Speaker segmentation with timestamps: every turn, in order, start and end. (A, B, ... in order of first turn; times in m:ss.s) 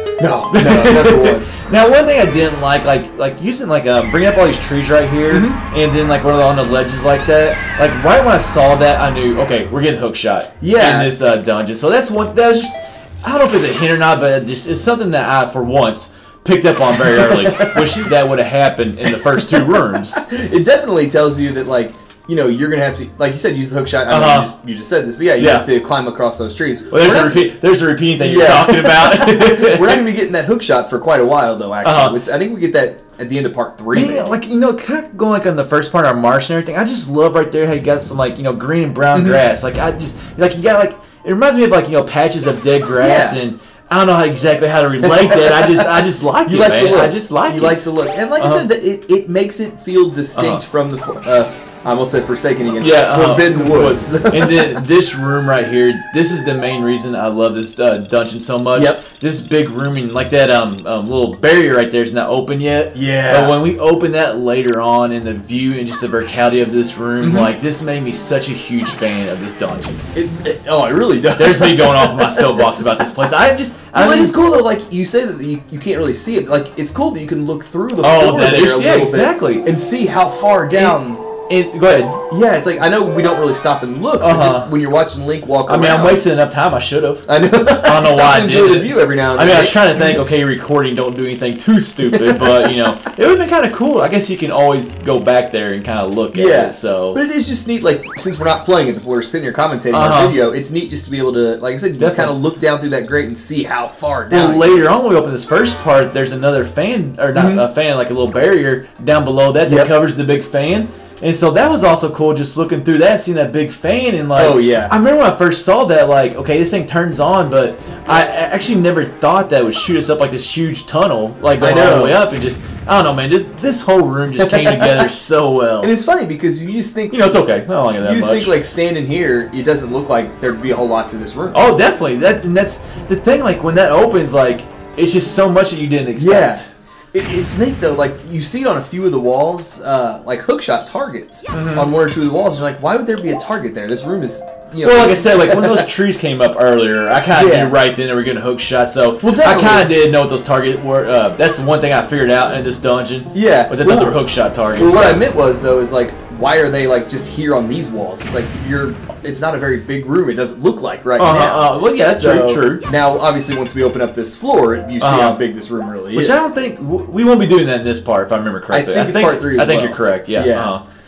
0:00.2-0:01.6 A
0:00.5-0:20.2 B
0:05.3-0:05.6 A
0:10.6-0:11.1 A
0:17.0-0:18.1 A
0:19.1-0:27.4 A
0:24.1-0:24.5 B
0:25.4-0:25.6 B
0:26.9-0:30.0 B
0:28.2-0:34.3 A
0:31.8-0:32.2 B
0:33.9-0:48.6 B
0:39.1-0:39.4 A
0:43.0-0:43.4 A
0:45.0-0:54.8 A
0:50.3-0:50.6 B
0:52.8-1:10.0 B
0:58.7-0:59.0 A
1:02.9-1:03.6 A
1:07.2-1:07.5 A
1:10.1-1:13.0 A
1:11.4-1:14.4 B
1:13.9-1:21.2 A
1:18.0-1:19.6 B
1:20.7-1:22.2 B
1:22.3-1:26.2 A
1:24.2-1:24.7 B
1:25.6-1:27.2 B
1:27.2-1:30.2 A
1:27.8-1:37.2 B
1:32.0-1:32.7 A
1:36.3-1:45.1 A
1:39.9-1:40.4 B
1:42.0-1:42.3 B
1:44.3-2:05.9 B
1:47.3-1:47.6 A
1:54.4-1:54.9 A
2:01.6-2:02.2 A
2:04.4-2:05.1 A
2:05.8-2:07.3 A
2:07.1-2:08.6 B
2:08.0-2:11.6 A
2:11.5-2:16.7 B
2:16.2-2:25.8 A
2:21.5-2:21.9 B
2:24.8-2:35.2 B
2:27.3-2:27.8 A
2:29.2-2:29.9 A
2:33.3-2:34.2 A
2:34.7-2:46.5 A
2:41.2-2:42.8 B
2:45.0-2:45.4 B
2:46.1-2:50.8 B
2:48.7-2:50.7 A